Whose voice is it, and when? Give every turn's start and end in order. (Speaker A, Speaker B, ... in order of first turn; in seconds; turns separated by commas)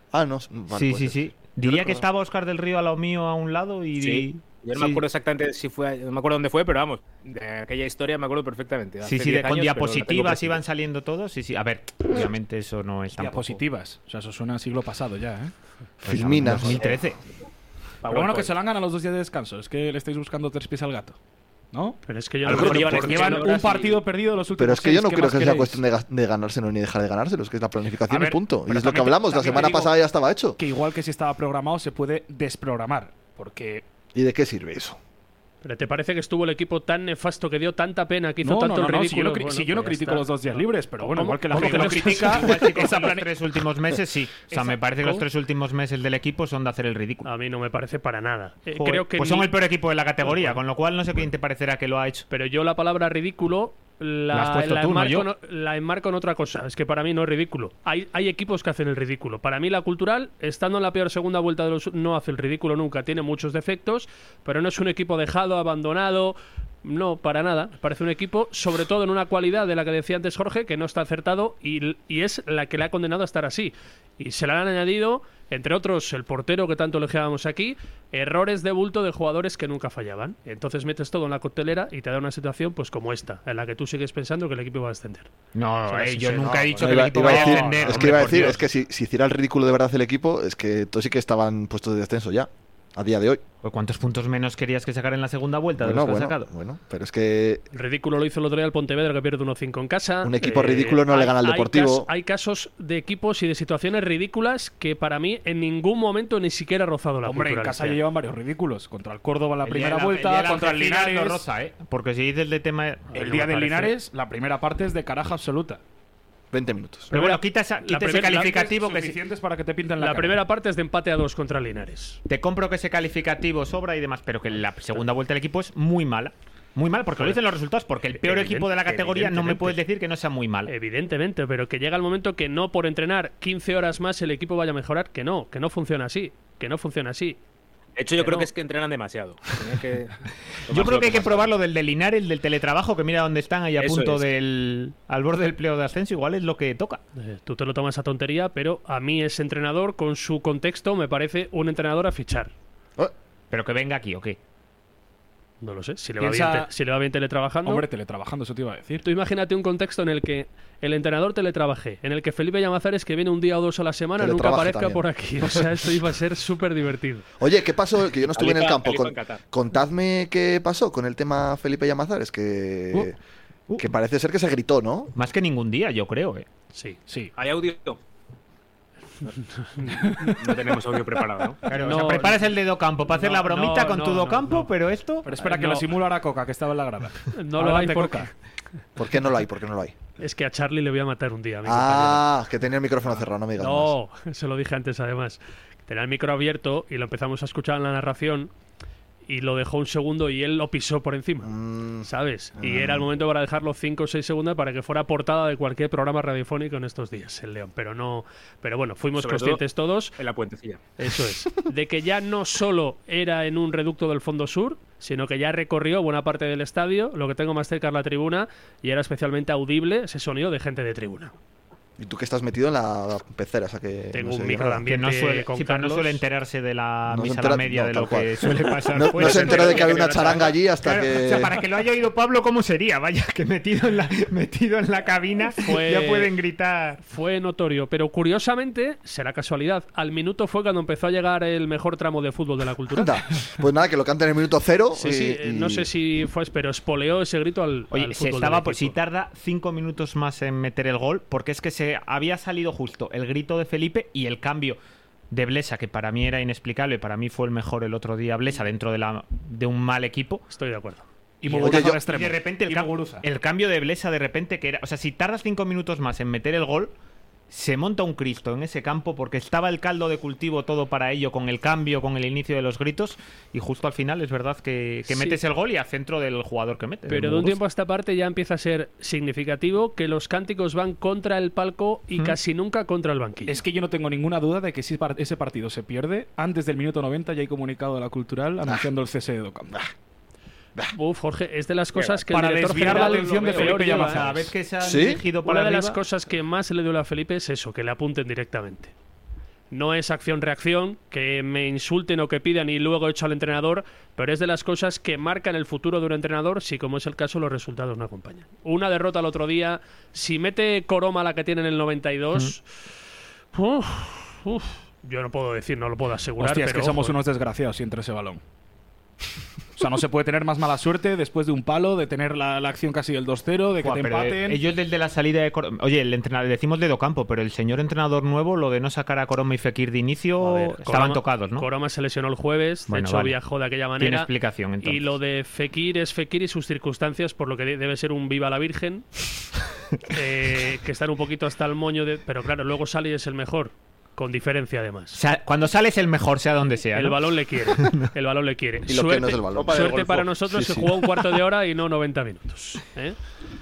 Speaker A: 0.1-2.0, Speaker B: 0.7-5.0, Speaker C: 4.0-10.6, Speaker B: 9.0-13.6, Speaker D: 13.2-15.5, Speaker A: 16.0-17.0, Speaker B: 16.1-17.2, Speaker C: 18.0-18.5, Speaker D: 18.1-21.2, Speaker D: 21.7-25.8, Speaker E: 22.1-23.5, Speaker C: 22.5-24.0, Speaker A: 22.5-22.8, Speaker A: 24.6-30.6, Speaker D: 28.1-29.9, Speaker D: 30.6-33.8, Speaker A: 34.1-35.0, Speaker E: 35.6-42.5, Speaker D: 38.4-43.3, Speaker B: 41.5-47.3, Speaker D: 44.5-45.2, Speaker E: 47.2-49.5, Speaker B: 48.8-52.3, Speaker E: 50.2-50.6, Speaker E: 52.3-85.3, Speaker B: 54.3-55.3, Speaker B: 85.5-88.6, Speaker E: 85.9-88.4, Speaker A: 86.4-93.4, Speaker D: 88.0-88.2, Speaker B: 93.6-96.5, Speaker A: 95.8-97.6, Speaker E: 97.7-108.0, Speaker A: 100.2-102.1, Speaker D: 107.2-111.5, Speaker B: 109.6-114.0, Speaker D: 113.1-115.8, Speaker A: 116.5-117.1, Speaker E: 117.1-118.6, Speaker B: 117.1-119.2, Speaker D: 118.5-120.4, Speaker E: 120.0-122.2, Speaker B: 122.3-130.7, Speaker C: 128.1-129.8, Speaker E: 130.7-137.4, Speaker C: 138.0-141.5, Speaker B: 138.2-138.5, Speaker B: 140.7-147.0, Speaker C: 143.8-144.3, Speaker E: 147.2-152.5, Speaker B: 153.5-154.4, Speaker E: 155.6-157.9, Speaker D: 156.2-156.7, Speaker D: 157.6-159.0, Speaker E: 159.0-167.3, Speaker A: 164.2-165.0, Speaker A: 167.4-173.2, Speaker C: 168.3-169.4, Speaker A: 173.8-175.1, Speaker B: 175.2-176.4, Speaker D: 177.1-177.3, Speaker C: 177.4-178.0, Speaker E: 179.6-180.3, Speaker D: 180.1-180.6, Speaker C: 180.4-181.7, Speaker B: 181.7-185.3, Speaker E: 181.7-182.4, Speaker E: 183.1-184.7, Speaker D: 185.3-188.3, Speaker E: 185.4-185.8, Speaker E: 187.3-188.3, Speaker A: 189.0-189.9, Speaker E: 190.2-192.3, Speaker A: 191.7-193.9, Speaker E: 193.6-198.5, Speaker E: 199.3-201.5, Speaker A: 201.4-203.1, Speaker E: 202.1-210.2, Speaker C: 209.2-209.6, Speaker C: 210.2-210.8, Speaker E: 211.0-221.3, Speaker A: 222.0-224.9, Speaker E: 224.1-226.2, Speaker B: 224.9-230.3, Speaker A: 227.1-231.6, Speaker E: 229.2-230.0, Speaker C: 229.7-230.3, Speaker B: 230.8-237.1, Speaker E: 235.6-236.3, Speaker E: 237.1-243.1, Speaker A: 242.9-245.9, Speaker E: 245.0-249.0, Speaker B: 247.9-254.8, Speaker B: 255.3-260.4, Speaker E: 260.5-261.0, Speaker D: 261.4-263.2, Speaker B: 261.5-266.9, Speaker A: 261.6-262.0, Speaker B: 267.5-277.6, Speaker E: 275.1-275.4, Speaker E: 277.1-283.6, Speaker D: 283.5-289.8, Speaker E: 290.9-294.2, Speaker C: 291.9-292.2, Speaker D: 292.3-294.5, Speaker B: 292.7-296.0, Speaker A: 294.8-295.2, Speaker E: 295.4-298.9, Speaker E: 299.7-312.6, Speaker E: 313.5-317.2, Speaker D: 316.4-318.4, Speaker D: 319.8-324.6, Speaker B: 323.8-331.7, Speaker E: 330.4-334.3, Speaker B: 332.9-333.4, Speaker B: 334.0-335.1, Speaker E: 334.8-339.1, Speaker E: 340.1-345.2, Speaker B: 345.1-348.1, Speaker E: 346.9-353.2, Speaker A: 348.9-349.8, Speaker C: 349.5-350.3, Speaker A: 350.5-351.1